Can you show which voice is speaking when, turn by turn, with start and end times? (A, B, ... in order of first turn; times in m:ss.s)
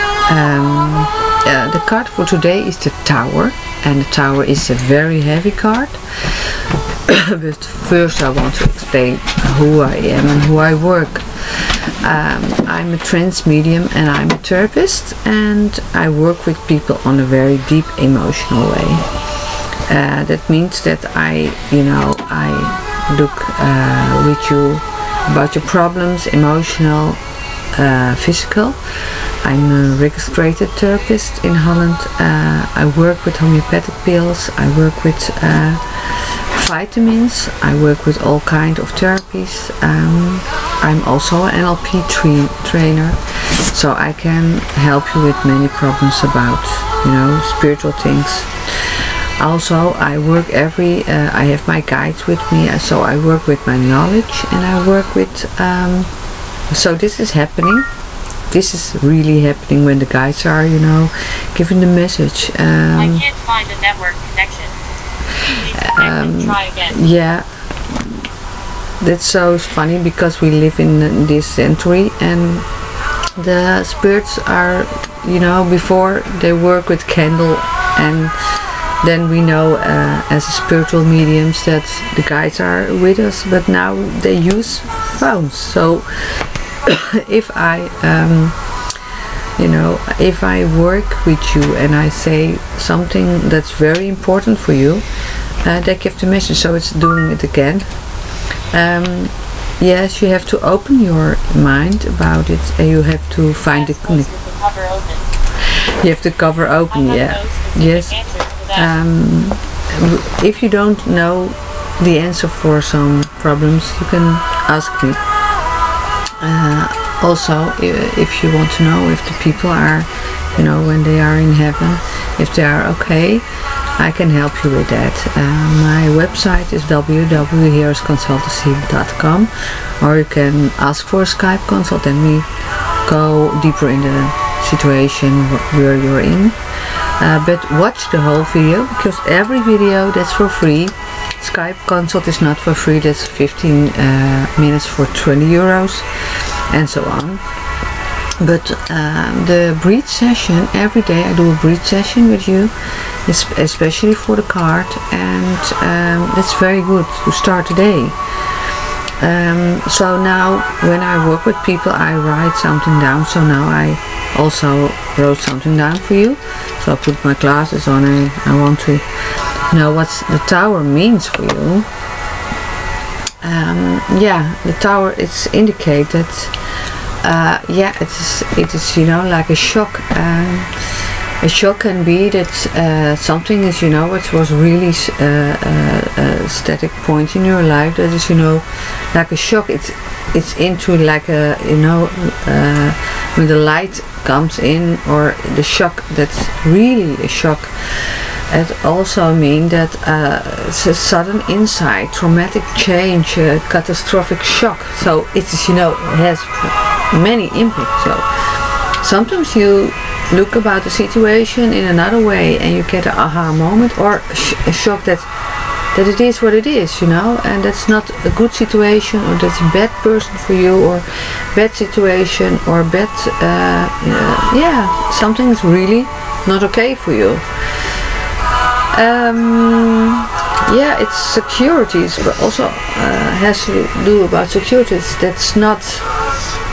0:00.3-0:19.1 A
0:19.9-0:27.2 A
0:27.8-0:28.8 A
0:29.4-0:43.2 A
0:43.7-0:56.1 A
0:56.7-0:57.9 A
0:58.5-1:03.3 A
1:03.0-1:04.8 B
1:05.4-1:08.2 A
1:05.5-1:07.0 B
1:09.0-1:12.7 A
1:13.4-1:18.4 A
1:19.0-1:28.6 A
1:29.6-1:35.0 A
1:35.6-1:37.9 A
1:38.7-1:44.3 A
1:43.7-1:45.3 B
1:45.6-1:48.2 A
1:46.9-1:48.9 B
1:48.7-1:55.2 A
1:56.4-2:03.4 A
2:04.0-2:12.5 A
2:13.1-2:16.6 A
2:17.2-2:26.1 A
2:26.7-2:27.4 A
2:28.4-2:32.7 A
2:33.3-2:38.2 A
2:39.2-2:49.1 A
2:49.7-2:51.9 A
2:53.4-2:56.6 A
2:57.2-3:35.3 A
3:35.9-3:48.0 A
3:48.9-3:56.1 A